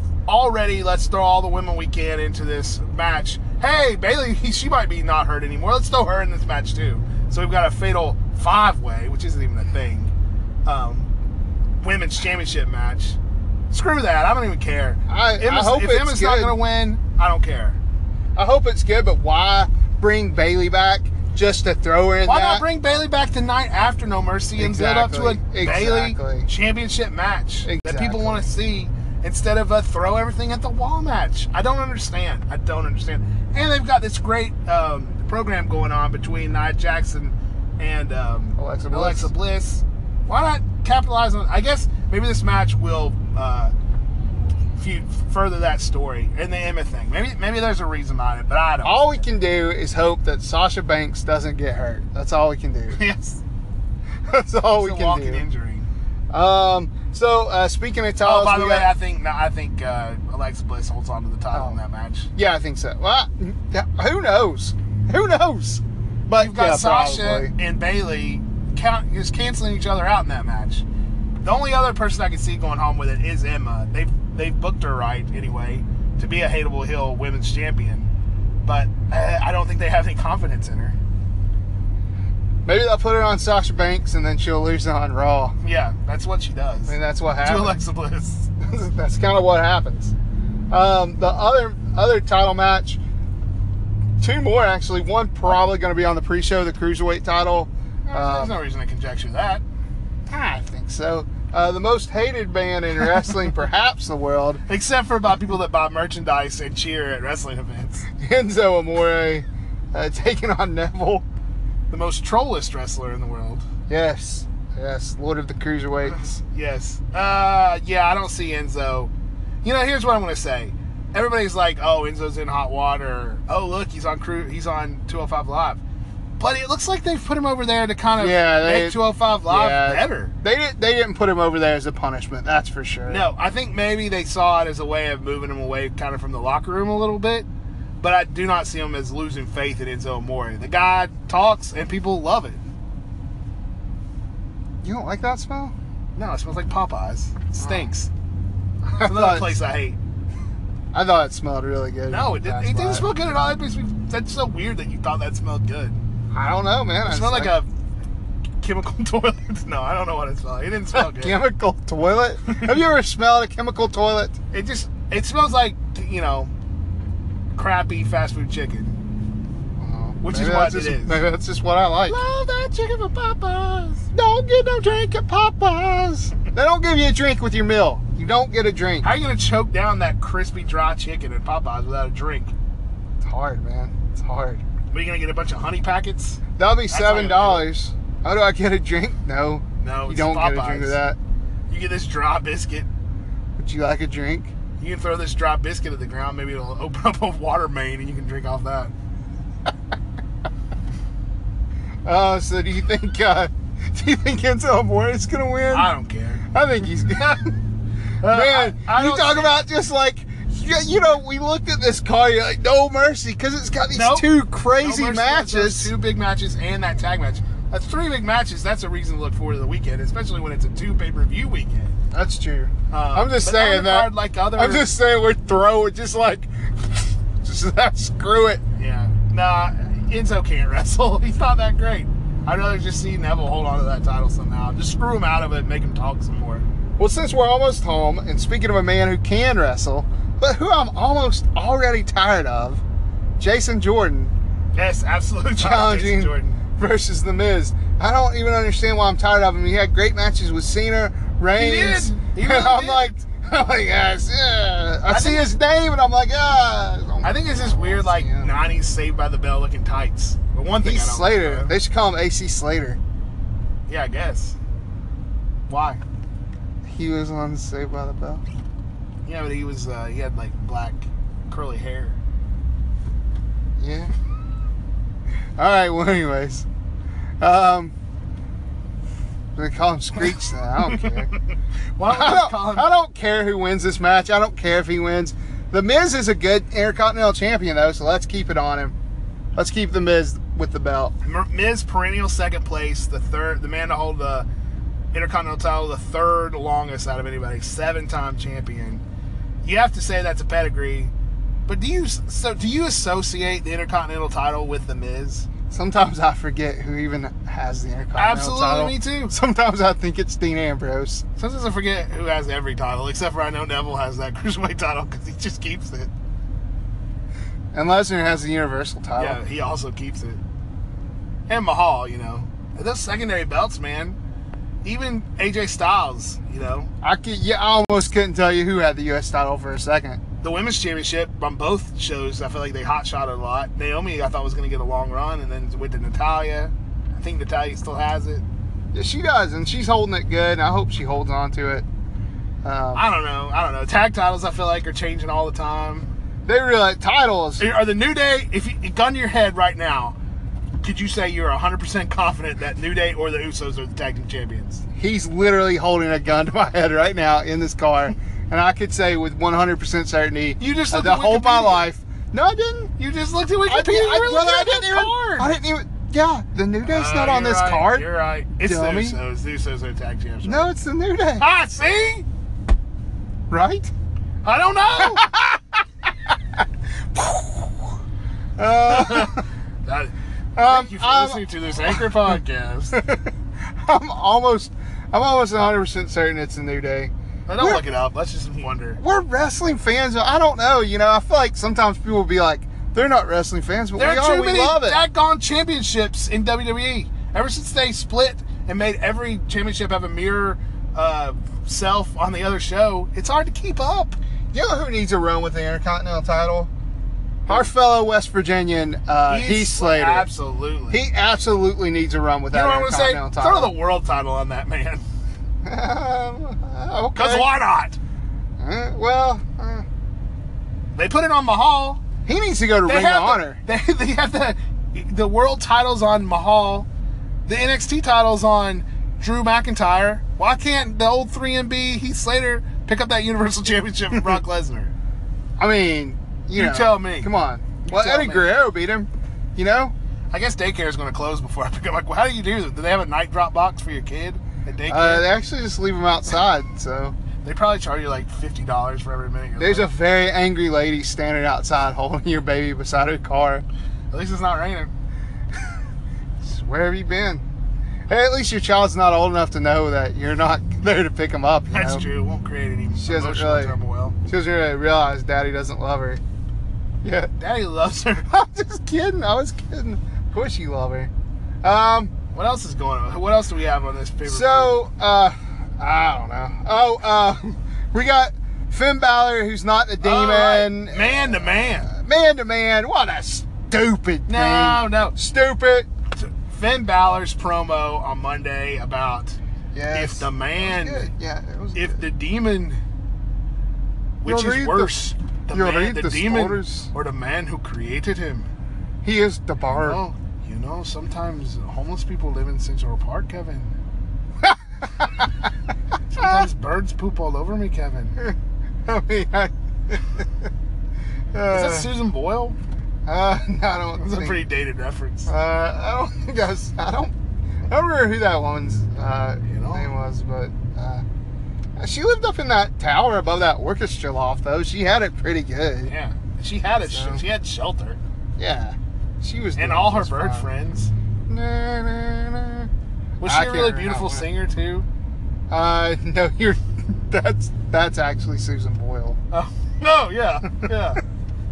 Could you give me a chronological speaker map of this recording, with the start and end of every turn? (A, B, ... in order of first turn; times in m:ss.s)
0:00.2-0:10.1 A
0:10.6-0:11.1 A
0:11.8-0:13.2 A
0:13.7-0:17.8 A
0:15.1-0:16.5 B
0:18.3-0:22.6 B
0:22.2-0:43.7 A
0:24.6-0:26.5 B
0:27.6-0:28.5 B
0:38.6-0:39.3 B
0:44.8-0:49.2 A
0:48.8-0:53.0 B
0:52.9-0:53.4 A
0:54.3-0:55.4 B
0:54.7-0:55.9 A
0:56.3-0:58.9 B
0:58.2-1:02.3 A
1:01.5-1:01.8 B
1:02.3-1:07.5 B
1:06.4-1:10.8 A
1:11.4-1:18.1 A
1:18.6-1:21.0 A
1:22.6-1:25.6 B
1:25.6-1:28.5 A
1:26.9-1:27.8 B
1:28.6-1:30.1 B
1:30.7-1:33.0 B
1:34.2-1:38.6 B
1:38.0-1:39.6 A
1:40.3-1:44.6 B
1:44.7-1:48.1 A
1:48.2-1:51.2 B
1:51.9-1:53.6 A
1:53.9-1:56.4 B
1:56.4-1:59.1 A
1:59.6-2:05.8 A
2:06.4-2:10.3 A
2:08.2-2:13.2 B
2:13.1-2:17.5 A
2:18.0-2:22.6 A
2:24.8-2:25.7 B
2:26.2-2:28.1 A
2:27.5-2:27.9 B
2:28.9-2:29.6 B
2:28.9-2:30.0 A
2:30.9-2:33.1 B
2:32.1-2:36.0 A
2:36.3-2:37.6 B
2:37.0-2:37.7 A
2:38.6-2:41.4 A
2:40.9-2:44.4 B
2:42.5-2:42.7 A
2:44.5-2:46.5 A
2:47.5-2:49.0 A
2:49.8-2:52.2 B
2:50.2-2:51.2 A
2:52.1-2:54.0 A
2:54.1-2:59.1 B
2:59.0-3:02.5 A
3:03.2-3:04.6 B
3:04.9-3:07.7 A
3:06.6-3:11.2 B
3:09.8-3:11.0 A
3:11.7-3:12.9 A
3:13.6-3:14.5 B
3:14.8-3:18.9 A
3:22.0-3:25.9 B
3:25.7-3:26.4 A
3:26.5-3:27.6 B
3:28.2-3:29.6 A
3:28.2-3:35.9 B
3:33.9-3:41.9 A
3:42.1-3:48.6 B
3:42.9-3:44.9 A
3:48.8-3:56.6 A
3:57.0-4:02.8 B
4:03.4-4:04.3 B
4:04.7-4:06.6 A
4:05.6-4:18.6 B
4:11.5-4:13.1 A
4:15.1-4:15.5 A
4:17.2-4:21.7 A
4:20.8-4:23.0 B
4:23.9-4:24.6 A
4:25.7-4:26.0 A
4:26.8-4:28.4 B
4:29.2-4:32.2 A
4:33.8-4:34.1 B
4:35.6-4:36.6 B
4:37.4-4:37.9 B
4:39.6-4:41.3 B
4:40.8-4:41.4 A
4:42.0-4:42.9 A
4:42.0-4:48.9 B
4:49.5-4:51.1 B
4:51.2-4:54.5 A
4:55.1-4:59.0 A
4:59.6-5:01.1 A
5:01.7-5:05.5 A
5:05.7-5:11.2 B
5:08.2-5:09.3 A
5:11.4-5:16.1 A
5:17.7-5:19.4 B
5:19.2-5:20.4 A
5:21.5-5:24.2 A
5:24.8-5:26.9 A
5:27.0-5:30.2 B
5:30.4-5:38.4 A
5:38.9-5:41.8 B
5:42.6-5:43.0 B
5:42.9-5:46.1 A
5:46.4-5:47.6 B
5:47.6-5:50.2 A
5:50.8-5:54.8 A
5:55.0-6:02.9 B
6:00.6-6:01.9 A
6:03.0-6:05.5 A
6:03.7-6:08.1 B
6:06.8-6:10.7 A
6:08.6-6:09.2 B
6:10.4-6:11.4 B
6:11.4-6:12.2 A
6:13.5-6:13.9 B
6:14.4-6:15.3 A
6:15.0-6:15.6 B
6:16.3-6:16.6 B
6:17.1-6:17.7 B
6:18.6-6:19.4 B
6:18.9-6:23.0 A
6:20.6-6:22.3 B
6:22.9-6:27.8 B
6:27.5-6:29.0 A
6:29.0-6:35.0 B
6:33.9-6:44.2 A
6:44.5-6:46.7 B
6:47.5-6:50.3 B
6:49.3-6:51.0 A
6:50.9-6:53.7 B
6:52.5-6:55.0 A
6:55.6-6:57.5 B
6:57.1-6:58.0 A
6:58.6-6:59.8 B
7:00.9-7:02.0 A
7:02.2-7:03.6 B
7:02.9-7:06.9 A
7:07.5-7:14.9 A
7:15.6-7:19.9 B
7:16.5-7:17.3 A
7:17.9-7:18.5 A
7:20.3-7:25.3 A
7:24.9-7:27.1 B
7:27.4-7:29.9 A
7:29.6-7:33.6 B
7:34.1-7:34.9 A
7:36.4-7:37.4 B
7:38.1-7:42.1 B
7:41.7-7:44.1 A
7:42.9-7:46.2 B
7:47.0-7:47.3 B
7:47.4-7:48.3 A
7:48.3-7:51.1 B
7:51.6-7:52.1 B
7:52.3-7:54.7 A
7:54.2-8:05.9 B
8:00.0-8:01.9 A
8:04.3-8:05.1 A
8:06.2-8:09.4 A
8:09.7-8:12.0 B
8:09.9-8:11.1 A
8:11.7-8:12.8 A
8:14.2-8:18.5 A
8:14.2-8:16.9 B
8:19.0-8:20.0 B
8:19.7-8:23.8 A
8:24.4-8:25.3 B
8:26.1-8:28.2 A
8:26.2-8:26.4 B
8:28.2-8:30.3 B
8:31.3-8:31.9 B
8:31.5-8:32.6 A
8:33.0-8:34.4 B
8:34.0-8:35.3 A
8:35.3-8:37.1 B
8:37.7-8:41.0 B
8:39.5-8:39.9 A
8:41.8-8:45.9 B
8:45.8-8:48.0 A
8:46.9-8:47.2 B
8:48.4-8:50.5 B
8:49.6-8:50.9 A
8:51.3-8:52.7 B
8:53.2-8:54.8 A
8:53.2-8:54.3 B
8:55.5-8:59.2 B
8:59.3-9:01.0 A